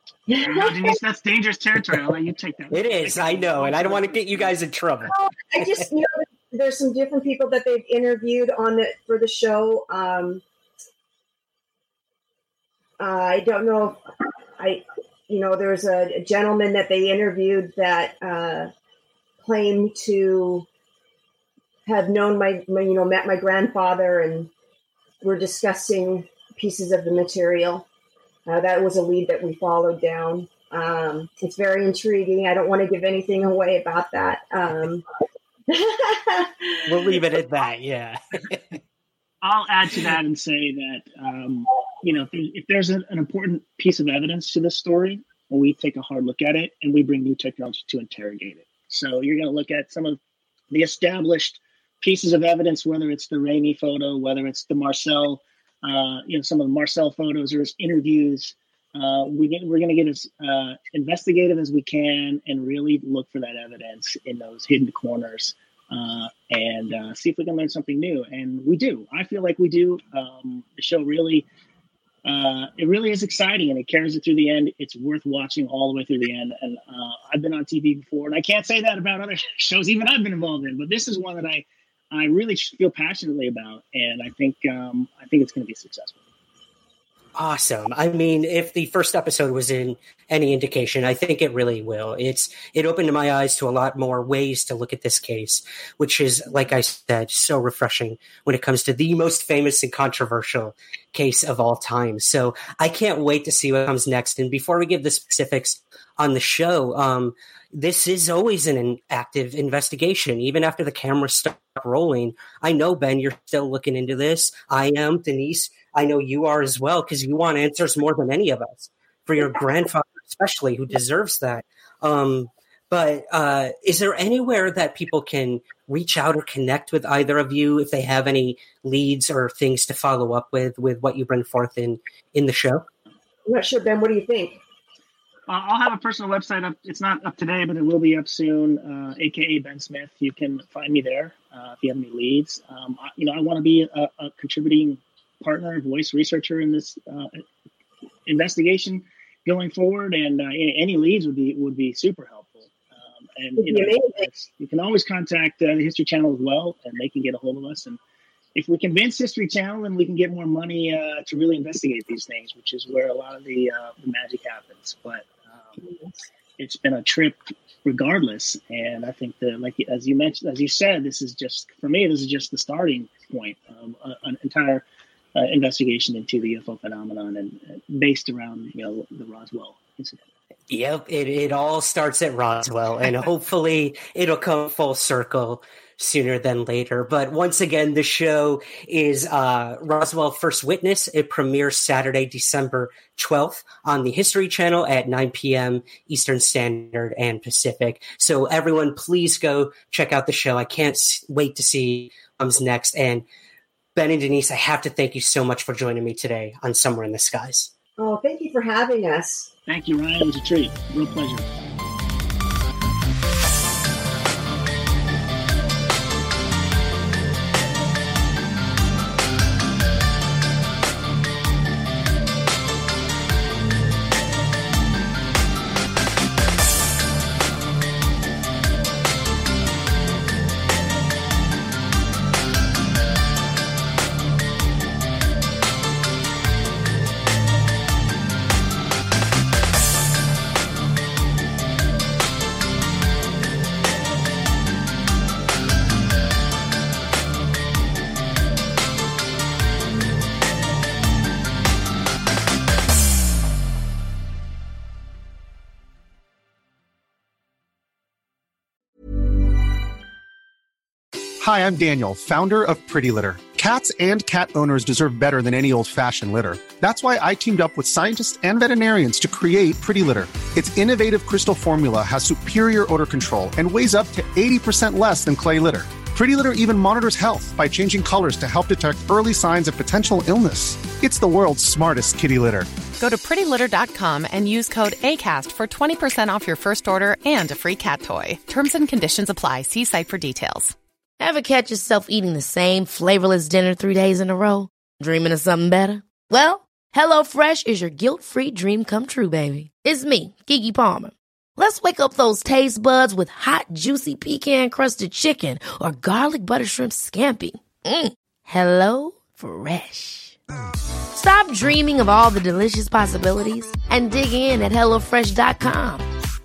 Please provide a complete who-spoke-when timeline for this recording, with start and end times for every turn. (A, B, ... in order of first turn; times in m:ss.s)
0:00.3-0:00.9 A
0:00.4-0:04.5 B
0:02.7-0:05.8 C
0:05.1-0:10.4 A
0:13.0-0:14.0 A
0:14.6-0:18.7 A
0:19.4-0:20.7 A
0:21.9-0:24.5 A
0:25.2-0:27.9 A
0:28.5-0:35.0 A
0:35.7-0:37.1 A
0:36.9-0:38.8 C
0:39.4-0:50.2 B
0:50.7-1:11.5 B
1:12.2-1:26.2 B
1:27.4-2:12.9 C
2:13.5-2:14.6 A
2:15.5-2:27.4 B
2:28.3-2:38.0 B
2:33.6-2:34.2 A
2:38.6-2:45.8 B
2:46.6-2:54.8 B
2:55.4-3:00.3 B
3:00.7-3:23.2 C
3:24.0-3:27.7 C
3:28.0-3:29.5 A
3:29.7-3:31.5 B
4:21.4-4:42.7 D
4:43.0-4:50.8 E
4:51.2-5:10.4 F
5:11.1-5:16.1 F